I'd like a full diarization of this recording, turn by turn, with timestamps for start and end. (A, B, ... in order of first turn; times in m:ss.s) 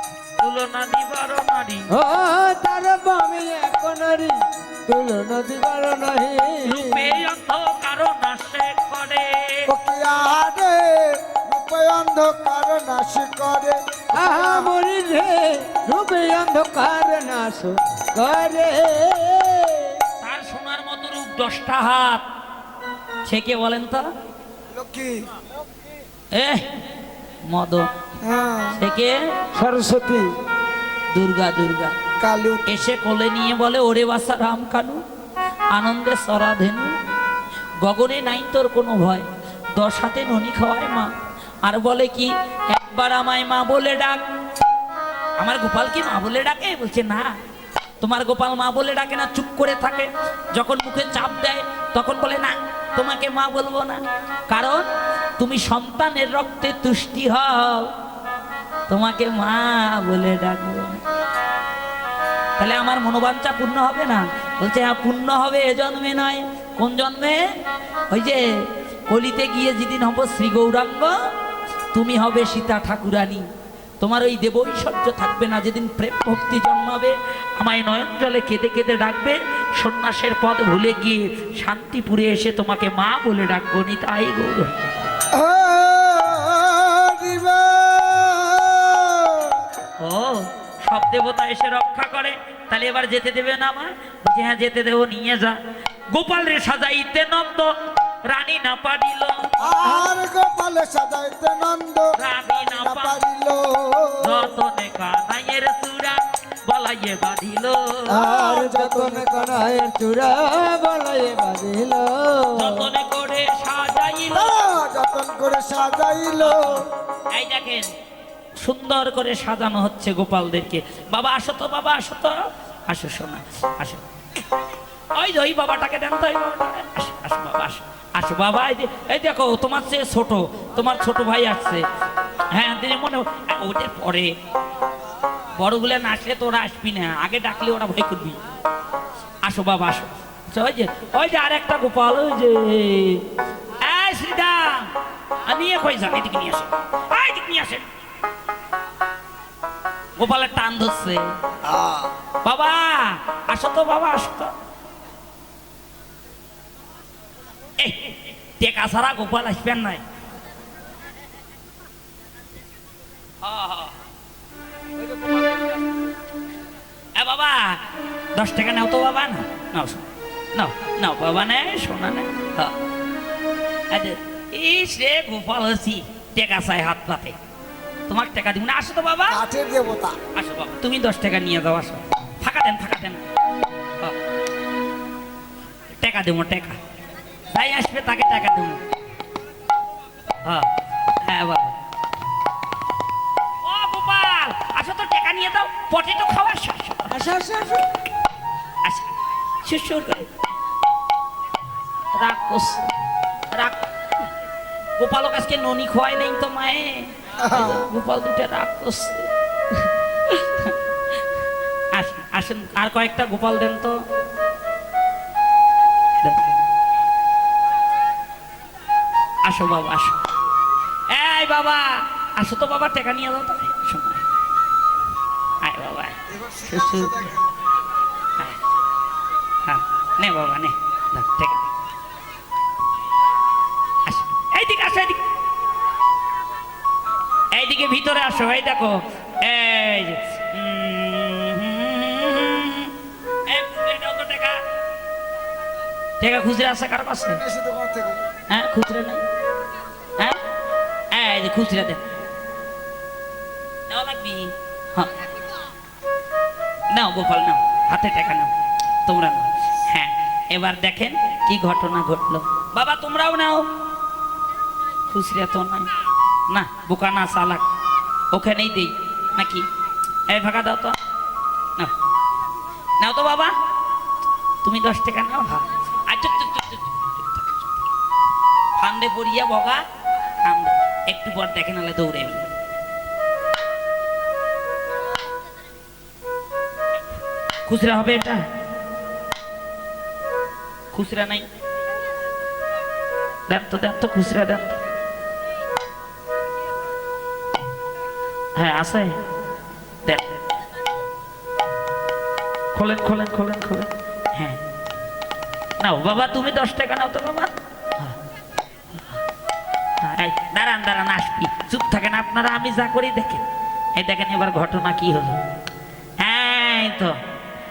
0:00.4-0:01.9 A
0:01.9-0:07.2 B
0:06.6-0:09.7 A
0:09.7-0:14.7 C
0:14.1-0:20.0 B
0:20.2-0:22.2 A
0:23.2-0:24.1 A
0:24.7-0:25.3 C
0:26.3-0:26.6 A
0:27.5-0:27.9 A
0:28.2-0:28.8 C
0:28.8-0:29.2 A
0:29.5-0:30.3 B
0:31.1-0:32.0 A
0:32.2-0:32.6 C
0:32.6-0:35.0 A
0:35.7-0:36.9 A
0:37.8-0:39.2 A
0:39.8-0:41.1 A
0:41.6-0:44.2 A
0:45.4-0:47.3 A
0:48.0-0:54.9 A
0:55.4-0:57.9 A
0:58.9-1:01.0 A
1:02.6-1:07.5 A
1:08.1-1:08.4 A
1:09.1-1:11.2 A
1:11.9-1:13.4 A
1:14.0-1:24.9 A
1:25.3-1:29.6 C
1:30.0-1:35.6 A
1:36.1-1:37.7 A
1:38.3-1:39.4 A
1:39.6-1:44.5 C
1:39.8-1:40.1 B
1:42.2-1:43.2 A
1:44.2-1:48.2 A
1:48.1-1:52.9 B
1:48.1-1:49.6 C
1:52.5-1:54.6 A
1:54.3-1:56.8 C
1:56.4-1:56.8 A
1:57.3-1:57.9 A
1:58.6-2:04.0 A
2:05.2-2:11.8 A
2:12.5-2:14.3 A
2:15.6-2:18.4 A
2:19.4-2:23.2 A
2:23.8-2:24.9 A
2:25.5-2:27.8 A
2:30.2-2:31.2 A
2:31.6-2:32.1 C
2:32.4-2:34.5 A
2:37.8-2:40.0 A
2:43.4-2:44.0 A
2:47.2-2:47.8 A
2:48.4-2:52.7 A
2:53.9-2:57.4 A
2:58.1-2:59.4 A
2:59.3-3:00.2 C
3:00.3-3:03.2 A
3:06.0-3:06.8 A
3:07.5-3:08.8 A
3:10.4-3:10.7 A
3:11.2-3:11.8 A
3:13.6-3:17.2 A
3:17.1-3:17.8 B
3:18.8-3:19.1 A
3:19.6-3:20.3 A
3:22.2-3:22.8 A
3:23.5-3:23.8 A
3:25.0-3:30.7 A
3:27.4-3:27.8 C
3:31.9-3:34.0 A
3:36.2-3:36.6 A
3:39.4-3:40.2 A
3:41.1-3:44.2 A
3:45.6-3:47.3 A
3:46.3-3:47.4 C
3:49.6-3:51.7 A
3:54.0-3:55.2 A
3:57.5-4:02.9 A
4:03.5-4:04.6 A
4:06.2-4:07.4 A
4:07.3-4:08.2 C
4:08.5-4:09.2 A
4:11.1-4:12.0 A
4:13.9-4:15.1 A
4:16.9-4:18.5 A
4:19.0-4:23.7 A
4:25.1-4:25.9 A
4:26.5-4:27.6 A
4:28.3-4:29.6 A
4:30.3-4:31.0 A
4:33.0-4:33.5 A
4:34.6-4:37.9 A
4:38.8-4:39.8 A
4:40.4-4:42.5 A
4:47.7-4:48.4 A
4:50.9-4:51.4 A
4:53.5-4:54.8 A
4:58.6-4:59.2 A
5:00.0-5:00.4 A
5:02.7-5:04.6 A
5:05.8-5:08.2 A
5:10.0-5:13.4 A
5:14.0-5:15.4 A
5:16.2-5:17.2 A